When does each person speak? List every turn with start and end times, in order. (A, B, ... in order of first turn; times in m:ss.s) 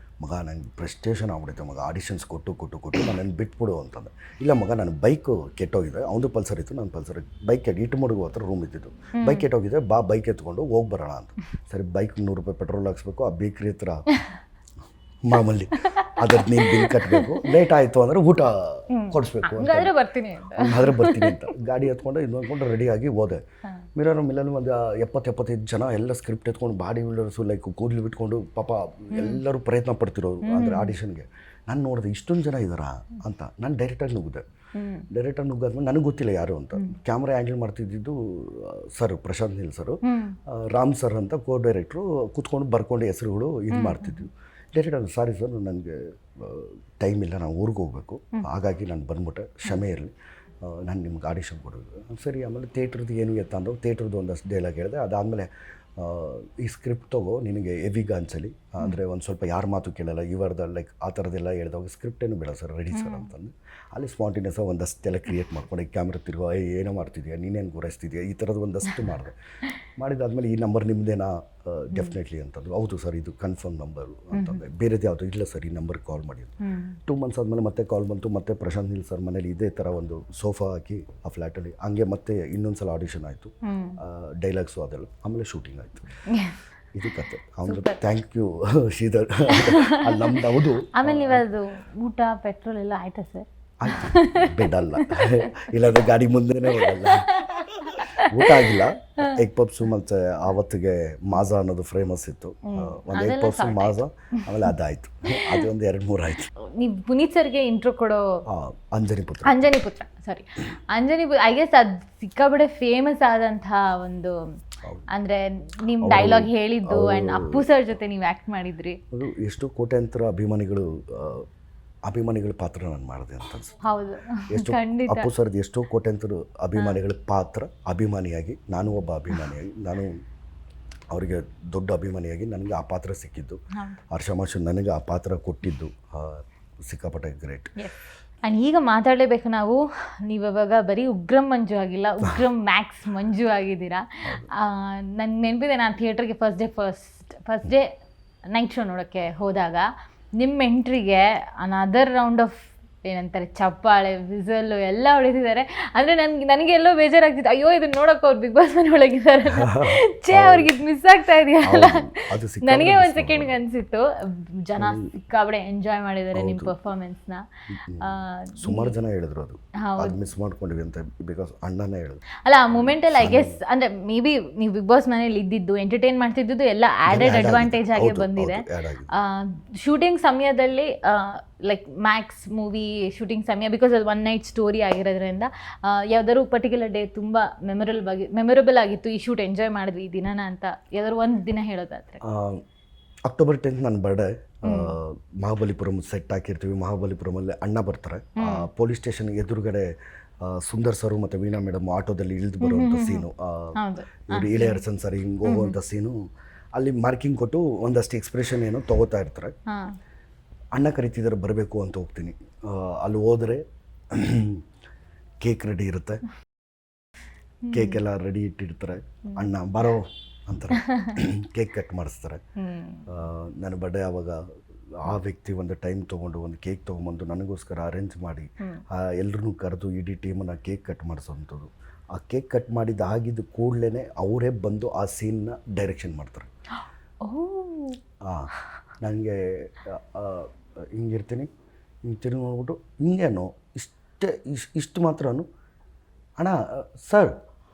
0:00.2-0:14.1 A
0:09.2-0:09.4 B
0:15.2-0:19.9 A
0:15.7-0:17.5 B
0:18.9-0:21.5 B
0:20.5-0:23.4 A
0:24.0-0:34.4 A
0:29.1-0:29.4 B
0:30.5-0:30.9 B
0:34.8-0:35.1 B
0:35.1-1:26.1 A
0:40.0-0:40.4 B
0:43.7-0:44.3 B
1:02.9-1:03.3 B
1:14.3-1:14.6 B
1:16.6-1:17.0 B
1:23.6-1:24.0 B
1:26.3-1:26.6 B
1:26.9-1:31.4 A
1:27.6-1:28.0 B
1:29.5-1:35.9 B
1:33.8-1:46.5 A
1:36.7-1:39.4 B
1:42.7-1:44.7 B
1:45.4-1:45.7 B
1:46.6-1:48.4 B
1:48.5-1:49.6 A
1:49.4-1:54.6 B
1:55.1-1:59.0 B
1:56.0-1:57.6 A
1:59.1-2:01.5 A
2:02.1-2:03.8 A
2:03.8-2:05.3 B
2:04.5-2:10.2 A
2:11.1-2:13.6 A
2:13.8-2:14.0 B
2:14.1-2:17.8 A
2:17.8-2:27.9 B
2:28.5-2:47.5 B
2:39.5-2:40.7 A
2:41.6-2:43.6 A
2:44.8-2:45.1 A
2:46.3-2:46.7 A
2:47.8-2:53.6 A
2:48.0-2:48.9 B
2:49.8-2:50.2 B
2:52.4-3:12.2 B
2:57.1-2:59.1 A
3:12.2-3:12.6 A
3:13.3-3:19.9 A
3:14.7-3:14.9 B
3:18.4-3:18.7 B
3:20.4-3:23.8 A
3:22.6-3:23.3 B
3:23.8-3:24.8 B
3:24.3-3:26.2 A
3:25.4-3:25.8 B
3:26.8-3:29.5 A
3:29.7-3:30.0 B
3:30.8-3:34.6 A
3:35.4-3:36.2 A
3:37.6-3:38.0 B
3:37.7-3:42.4 A
3:40.7-3:41.2 B
3:42.6-3:43.2 B
3:43.1-3:44.4 A
3:45.0-3:56.5 A
3:57.2-3:58.0 B
3:58.2-4:01.5 A
4:02.1-4:05.5 A
4:06.4-4:07.4 A